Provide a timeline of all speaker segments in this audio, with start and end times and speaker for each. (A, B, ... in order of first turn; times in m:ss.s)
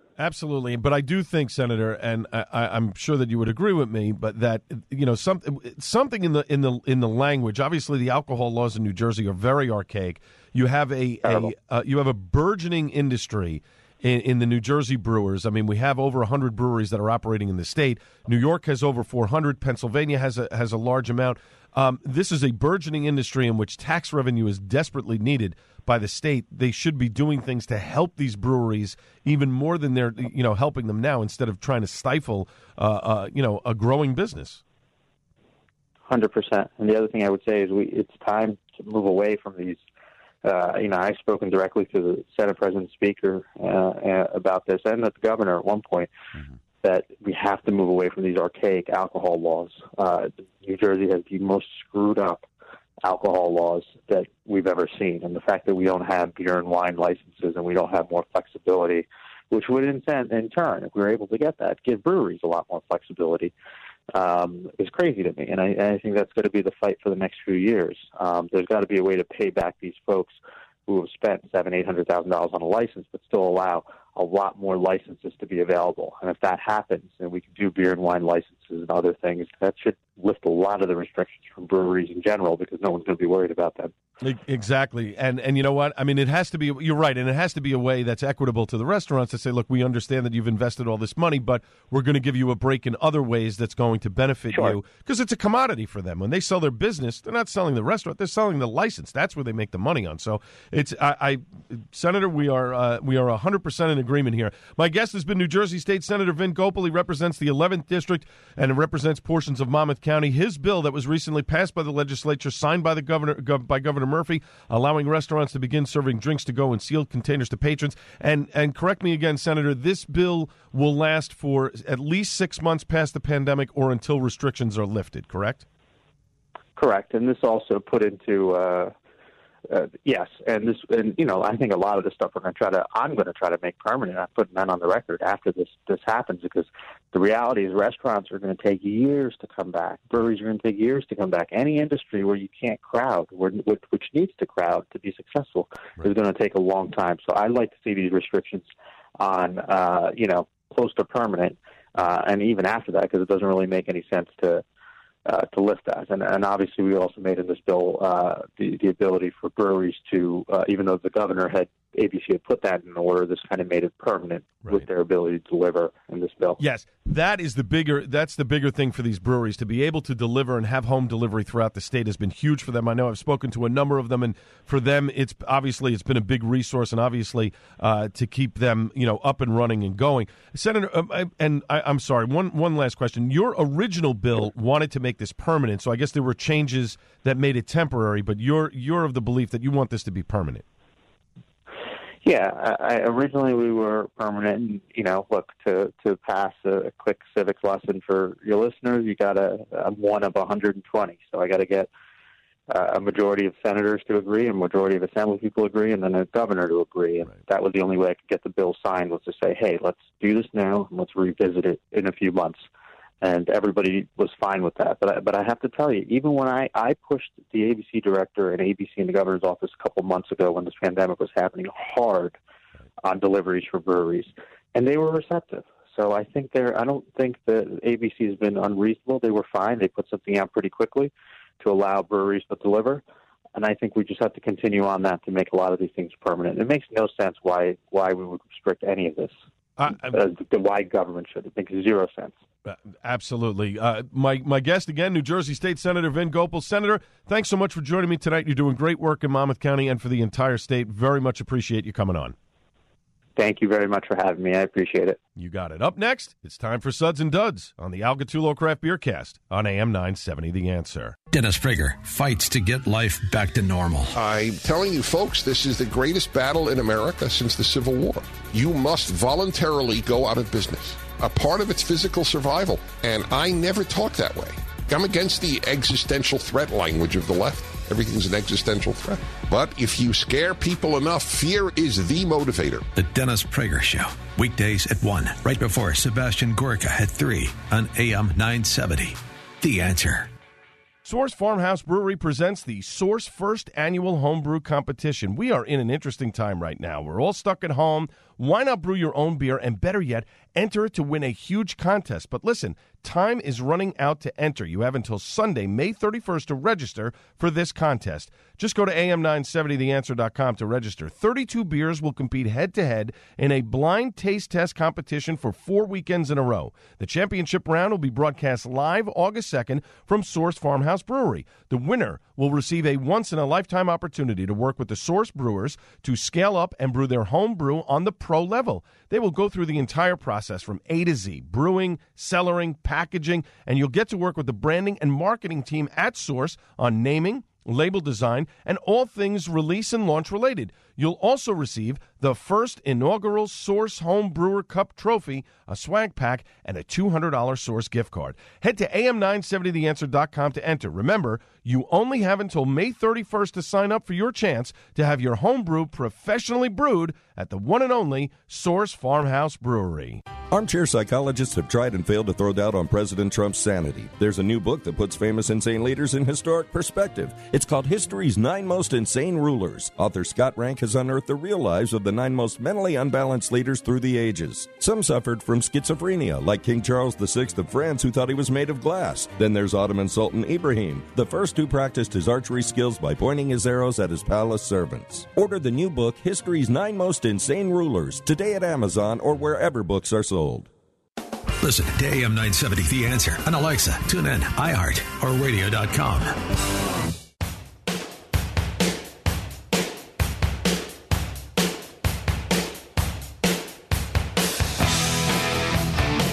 0:00.2-0:34.6 A
0:36.1-0:39.8 B
0:40.4-0:46.1 B
0:46.8-0:52.5 B
0:53.0-1:03.5 B
1:04.1-1:10.4 B
1:10.9-1:23.9 B
1:24.2-2:05.6 A
2:06.8-2:08.9 B
2:09.7-2:28.7 B
2:29.2-2:34.6 B
2:35.2-2:46.6 B
2:46.6-3:10.6 A
3:12.2-3:21.9 B
3:22.7-3:32.6 B
3:33.2-3:42.4 B
3:43.0-3:53.0 B
3:53.6-3:59.4 B
3:59.8-4:00.2 A
3:59.9-4:02.4 B
4:02.7-4:12.4 A
4:13.4-4:15.2 B
4:15.4-4:21.2 A
4:21.3-4:24.2 C
4:24.1-4:42.9 D
4:42.9-4:50.3 C
4:51.0-6:00.2 A
6:00.5-6:30.7 E
6:31.6-6:36.4 C